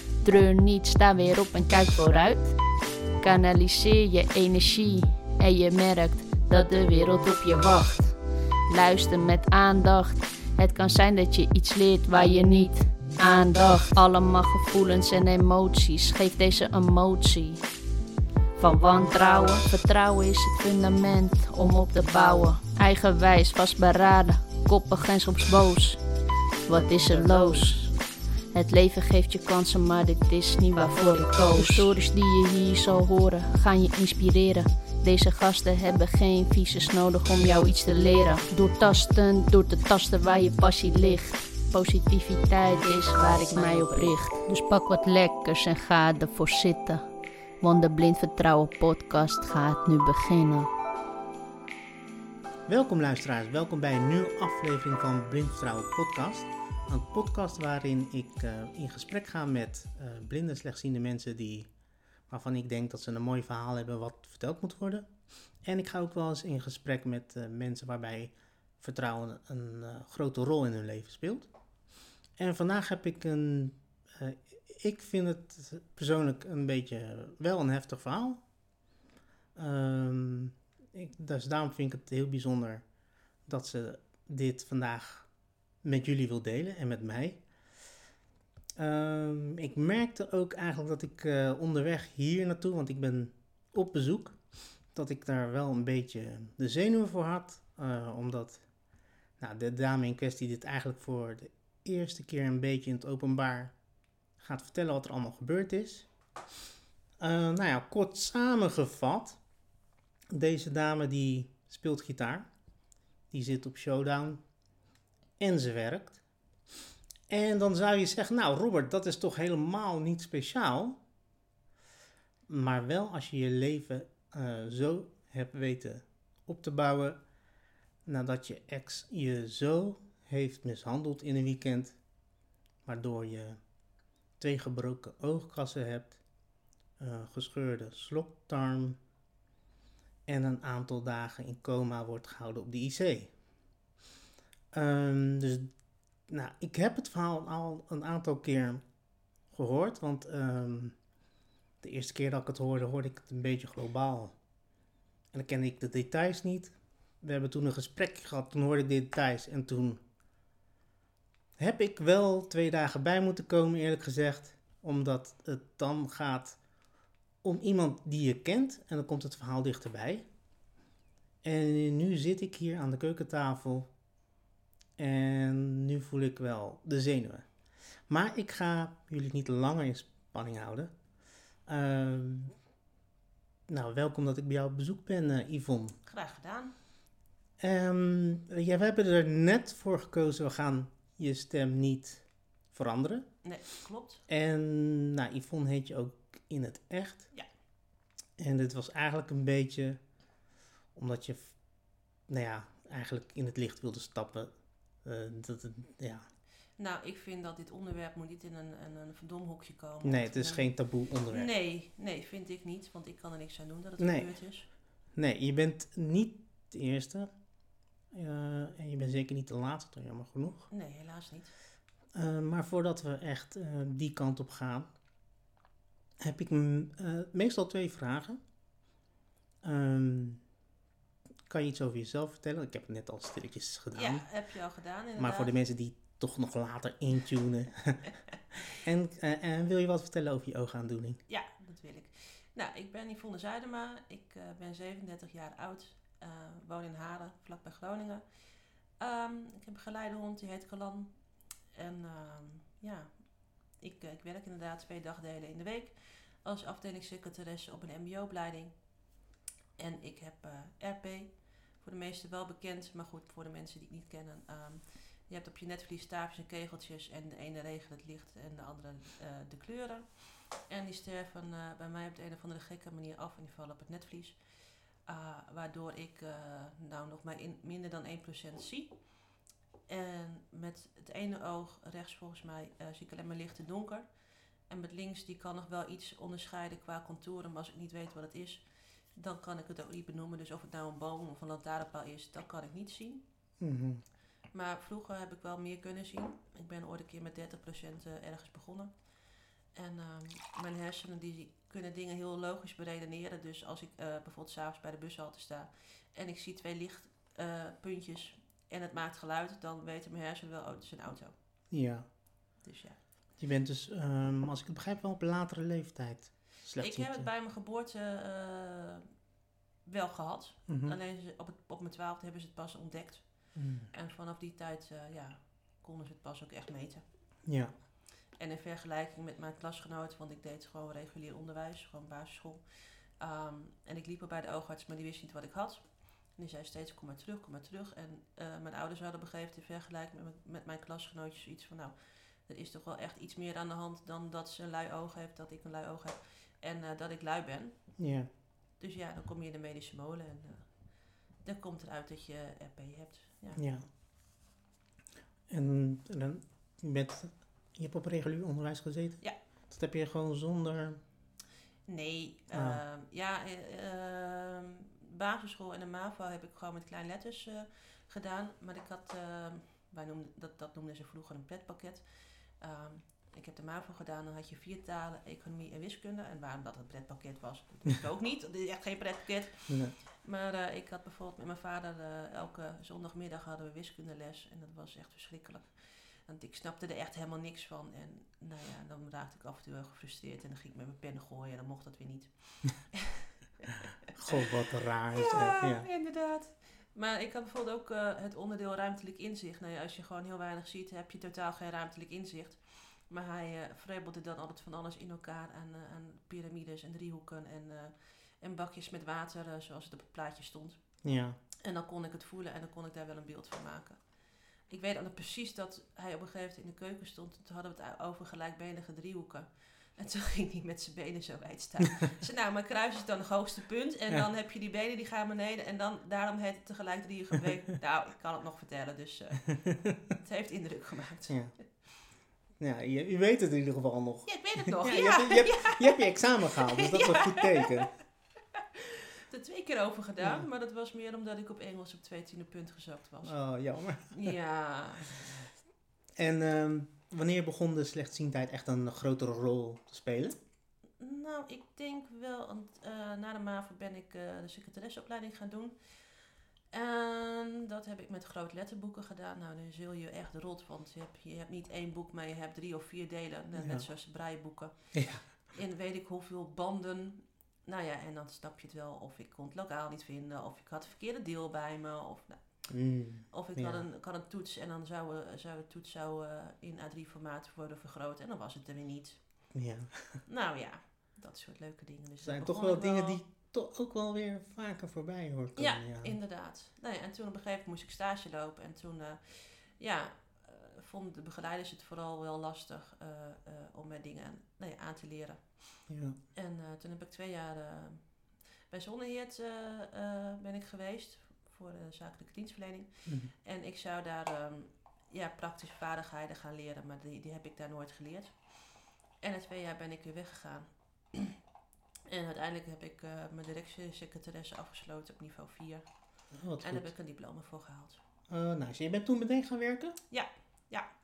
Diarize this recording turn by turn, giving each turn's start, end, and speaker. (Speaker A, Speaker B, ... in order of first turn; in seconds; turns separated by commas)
Speaker A: 0.2-2.6, Speaker A: 3.2-17.6, Speaker A: 18.6-26.0, Speaker A: 26.6-28.0, Speaker A: 28.5-47.1, Speaker A: 47.6-50.7, Speaker B: 52.7-61.7, Speaker B: 62.3-71.5, Speaker B: 72.4-78.4, Speaker B: 79.5-82.8, Speaker B: 83.5-85.3, Speaker B: 85.8-87.4, Speaker B: 88.8-98.7, Speaker B: 99.4-103.7, Speaker B: 104.4-106.1, Speaker B: 107.2-109.4, Speaker B: 110.3-112.5, Speaker B: 113.3-114.4, Speaker B: 115.4-116.2, Speaker B: 117.3-121.0, Speaker B: 122.5-127.2, Speaker B: 128.1-132.0, Speaker B: 132.9-133.6, Speaker B: 134.4-136.2, Speaker B: 137.0-139.0, Speaker B: 140.3-143.3, Speaker B: 144.7-145.7, Speaker B: 146.3-148.8, Speaker B: 149.5-150.9, Speaker B: 151.8-154.4, Speaker B: 155.3-160.0, Speaker B: 161.6-166.6, Speaker B: 167.4-170.3, Speaker B: 171.4-173.9, Speaker B: 175.0-177.5, Speaker B: 178.1-180.9, Speaker B: 181.7-182.6, Speaker B: 183.7-186.0, Speaker C: 186.1-186.7, Speaker B: 187.6-193.3, Speaker C: 193.4-194.2, Speaker B: 194.3-197.3, Speaker B: 198.4-200.0, Speaker B: 200.9-201.6, Speaker B: 202.3-206.3, Speaker C: 206.8-214.7, Speaker B: 210.0-211.5, Speaker B: 214.0-214.4, Speaker B: 215.1-217.3, Speaker B: 218.1-220.7, Speaker C: 220.7-221.5, Speaker B: 222.1-224.9, Speaker B: 226.2-228.4, Speaker B: 229.6-230.4, Speaker B: 231.5-234.5, Speaker C: 233.9-235.5, Speaker B: 235.2-238.1, Speaker B: 238.7-241.2, Speaker C: 241.3-259.0, Speaker C: 259.8-293.2, Speaker B: 293.6-294.1, Speaker C: 294.5-311.3, Speaker B: 311.7-312.1, Speaker C: 312.6-313.0, Speaker B: 313.4-317.3, Speaker C: 316.8-319.1, Speaker C: 319.9-327.3, Speaker B: 320.7-321.0, Speaker B: 323.6-323.9, Speaker B: 327.4-327.7, Speaker C: 328.3-348.0, Speaker B: 348.0-348.3, Speaker C: 348.8-353.6, Speaker B: 353.6-353.9, Speaker B: 355.5-361.0, Speaker C: 361.9-411.1, Speaker B: 362.5-362.8, Speaker B: 379.7-379.9, Speaker B: 394.1-395.9, Speaker B: 411.0-411.4, Speaker C: 411.6-431.4, Speaker B: 431.3-431.6, Speaker B: 432.6-437.9, Speaker C: 434.2-437.9, Speaker C: 438.8-443.4, Speaker B: 440.2-440.5, Speaker B: 443.2-444.4, Speaker C: 444.1-445.4, Speaker B: 446.2-450.4, Speaker C: 451.0-479.5, Speaker B: 463.6-463.9, Speaker B: 464.9-465.2, Speaker B: 472.7-473.9, Speaker B: 479.5-480.2, Speaker C: 480.2-483.2, Speaker B: 482.2-486.2, Speaker C: 485.6-511.4, Speaker B: 495.9-496.2, Speaker B: 503.1-503.3, Speaker C: 512.1-518.0, Speaker B: 516.3-516.9, Speaker B: 518.3-520.0, Speaker C: 520.1-520.9